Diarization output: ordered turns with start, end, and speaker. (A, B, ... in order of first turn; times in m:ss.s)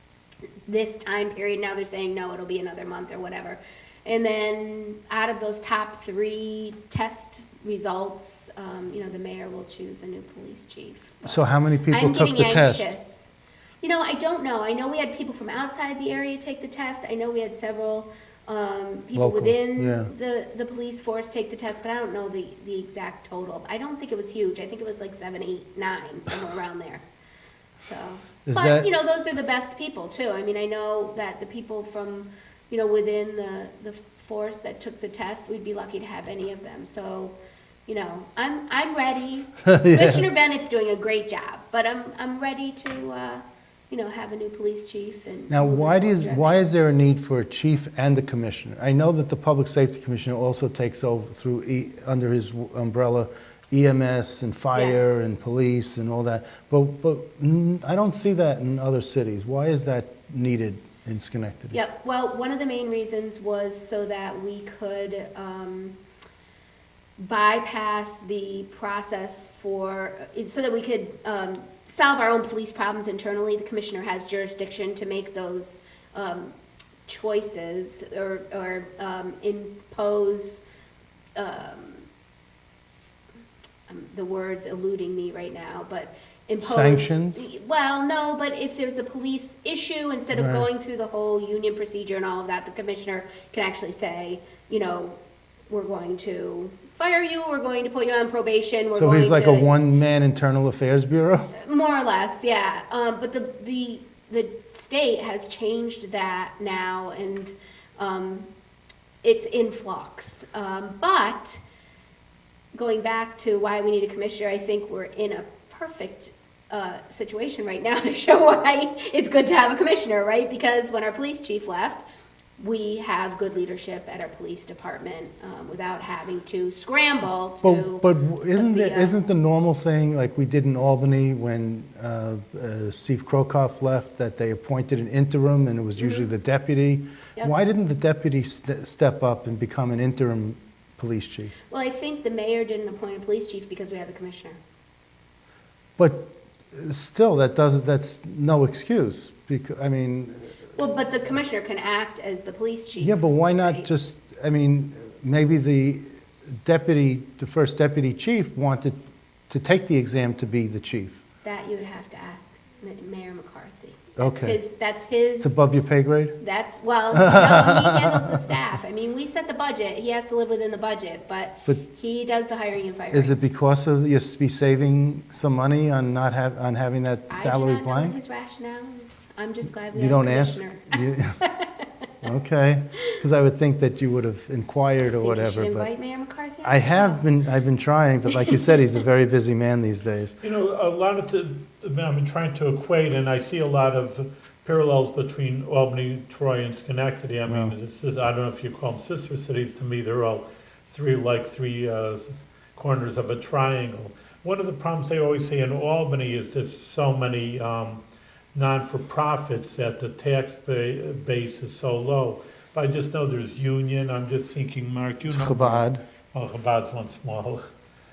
0:00.7-0:13.2 A
0:11.2-0:12.9 B
0:13.8-0:27.0 A
0:19.1-0:20.1 B
0:27.8-0:37.3 A
0:28.4-0:28.9 B
0:37.9-0:46.6 A
0:39.6-0:40.2 B
0:45.5-1:01.8 B
0:54.7-0:55.1 A
1:01.7-1:05.9 A
1:07.2-1:16.5 A
1:17.1-1:20.6 A
1:21.4-1:22.0 A
1:23.9-1:35.2 A
1:26.6-1:27.4 B
1:30.3-1:30.6 B
1:35.7-1:39.7 A
1:38.9-1:41.5 B
1:41.5-1:48.5 A
1:49.2-1:51.6 A
1:52.7-2:02.0 A
2:02.6-2:09.3 A
2:07.6-2:21.5 B
2:16.0-2:16.3 A
2:21.7-2:24.6 A
2:26.0-2:30.5 B
2:30.8-2:33.9 A
2:33.0-2:39.0 B
2:39.5-2:41.2 B
2:41.4-2:45.5 A
2:44.2-2:44.6 B
2:45.4-2:46.4 B
2:46.4-2:53.3 A
2:47.1-2:48.4 B
2:53.1-2:58.2 B
2:57.3-3:01.9 A
2:59.9-3:01.4 B
3:02.2-3:05.9 B
3:05.1-3:07.3 A
3:06.6-3:10.4 B
3:08.5-3:08.7 A
3:10.4-3:28.0 C
3:17.4-3:17.8 B
3:28.5-3:37.6 C
3:35.2-3:36.0 B